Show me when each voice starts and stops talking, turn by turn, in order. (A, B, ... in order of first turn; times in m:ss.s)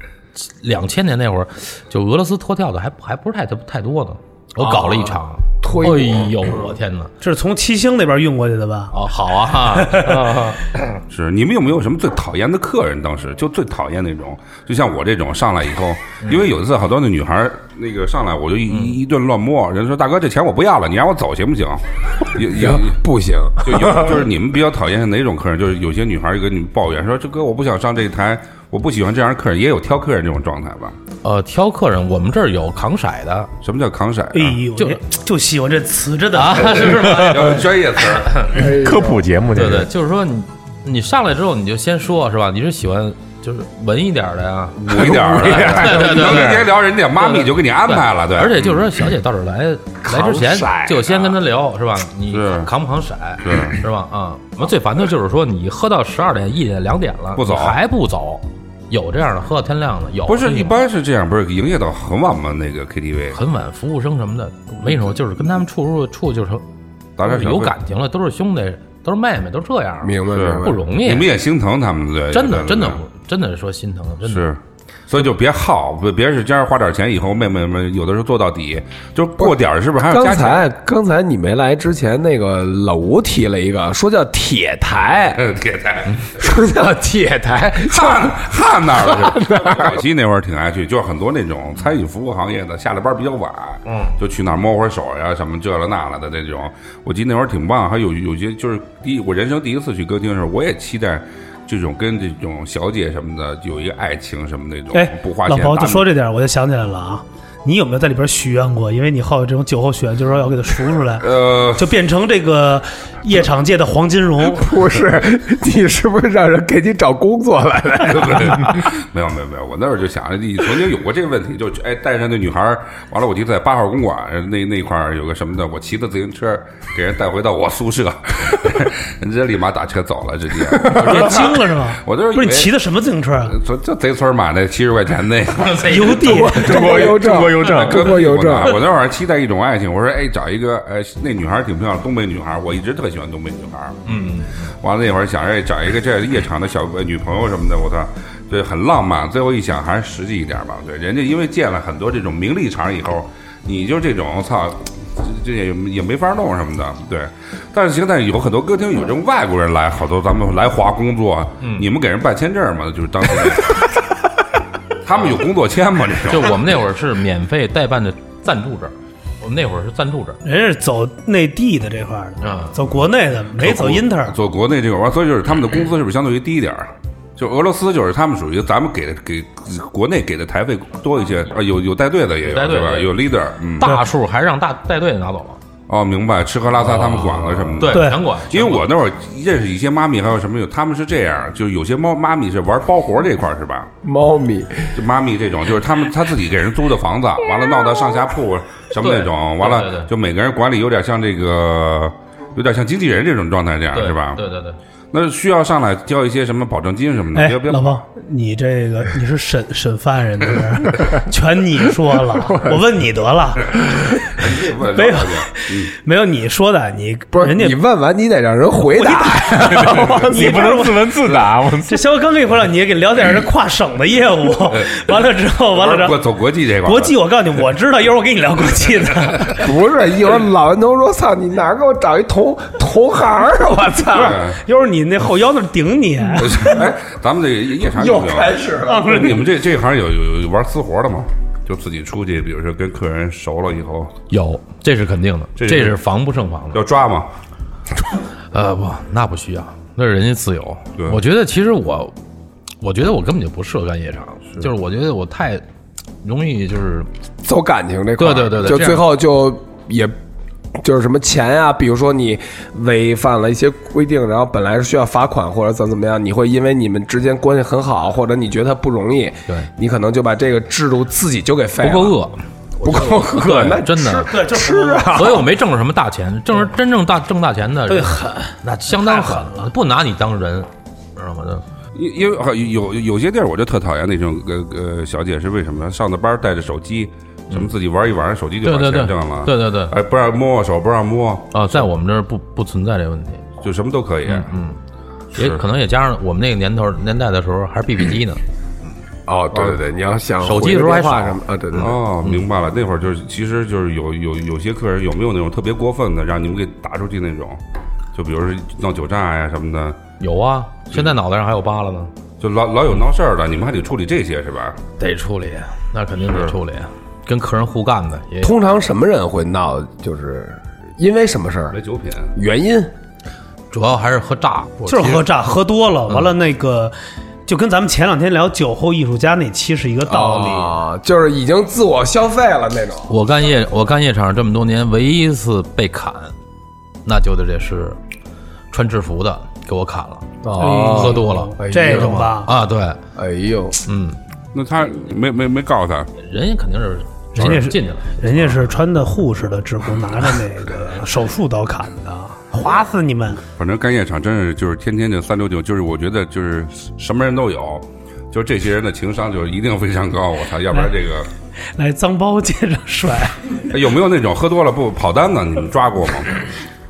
0:00.4-0:07.1 A
0:04.6-0:06.7 B
0:07.2-0:09.0 C
0:08.9-0:11.0 A
0:09.5-0:10.4 C
0:11.1-0:23.0 D
0:18.7-0:19.0 A
0:22.5-0:24.3 B
0:23.6-0:31.0 D
0:31.2-0:33.5 A
0:33.6-0:34.6 D
0:34.3-0:37.2 C
0:34.7-0:35.0 A
0:36.3-0:38.7 A
0:36.9-0:38.5 D
0:38.5-0:39.3 B
0:38.6-0:39.9 E
0:39.5-1:00.8 A
0:44.8-0:49.0 D
0:44.9-0:46.4 B
0:50.0-0:51.1 B
0:52.3-0:52.7 D
0:53.4-0:53.8 D
0:57.4-0:57.8 D
1:00.3-1:03.4 D
1:03.3-1:06.6 A
1:07.2-1:07.7 D
1:07.2-1:11.3 A
1:10.0-1:10.8 B
1:10.3-1:13.0 D
1:12.3-1:14.5 A
1:14.2-1:20.7 D
1:19.4-1:25.5 B
1:25.4-1:26.3 D
1:26.2-1:30.0 B
1:27.8-1:46.1 D
1:33.9-1:34.2 A
1:44.9-1:54.8 C
1:51.2-1:52.0 D
1:54.5-1:58.8 B
1:58.0-2:12.7 D
2:10.9-2:13.6 C
2:13.5-2:16.1 D
2:15.6-2:17.9 A
2:15.8-2:17.2 C
2:16.2-2:18.8 B
2:16.6-2:18.1 E
2:17.6-2:24.1 D
2:24.1-2:24.7 A
2:24.8-2:43.9 D
2:41.6-2:41.9 A
2:45.0-2:46.7 D
2:46.3-2:50.4 A
2:50.4-2:54.4 C
2:52.4-2:52.8 A
2:53.6-3:04.0 D
3:02.4-3:03.1 A
3:03.8-3:05.6 A
3:05.9-3:13.9 D
3:06.8-3:08.9 A
3:07.9-3:08.2 C
3:14.0-3:15.0 B
3:14.9-3:24.4 D
3:19.0-3:20.1 A
3:23.9-3:24.8 A
3:25.1-3:28.0 D
3:27.4-3:37.8 C
3:34.2-3:35.9 D
3:37.3-3:41.0 B
3:38.8-3:46.2 C
3:39.8-3:42.0 E
3:45.7-3:47.2 D
3:46.8-3:49.7 C
3:49.6-3:54.4 B
3:54.1-3:56.9 C
3:54.1-3:54.6 D
3:56.4-4:04.1 D
3:57.9-3:59.4 B
3:58.8-3:59.4 C
4:04.3-4:06.8 A
4:05.6-4:06.0 D
4:06.7-4:07.3 D
4:08.5-4:12.2 A
4:12.8-4:15.6 A
4:16.2-4:17.1 A
4:17.4-4:20.2 B
4:18.2-4:19.1 A
4:20.8-4:32.2 B
4:31.8-4:34.4 A
4:32.8-4:35.5 B
4:34.2-4:35.4 C
4:35.1-4:41.6 A
4:37.9-4:39.7 C
4:41.9-4:51.8 D
4:48.6-4:50.0 A
4:51.5-4:53.5 A
4:53.6-4:54.5 D
4:54.3-4:54.8 A
4:55.3-4:58.4 A
4:59.3-5:02.0 B
4:59.5-4:59.8 D
5:00.4-5:02.4 A
5:01.8-5:07.6 D
5:08.1-5:10.0 D
5:10.2-5:12.1 A
5:12.4-5:14.8 D
5:15.0-5:18.6 A
5:18.4-5:21.8 B
5:21.7-5:22.3 D
5:22.4-5:22.9 B
5:23.7-5:25.3 A
5:24.9-5:30.7 C
5:26.1-5:26.3 A
5:30.1-5:33.1 B
5:33.1-5:36.4 A
5:37.0-5:38.0 A
5:38.7-5:43.0 A
5:40.4-5:42.3 B
5:40.6-5:42.5 C
5:43.2-5:43.8 B
5:43.9-5:44.2 A
5:44.5-5:46.1 D
5:46.2-5:48.2 A
5:47.4-5:53.4 C
5:53.6-6:01.3 D
6:01.8-6:03.5 C
6:03.7-6:06.4 D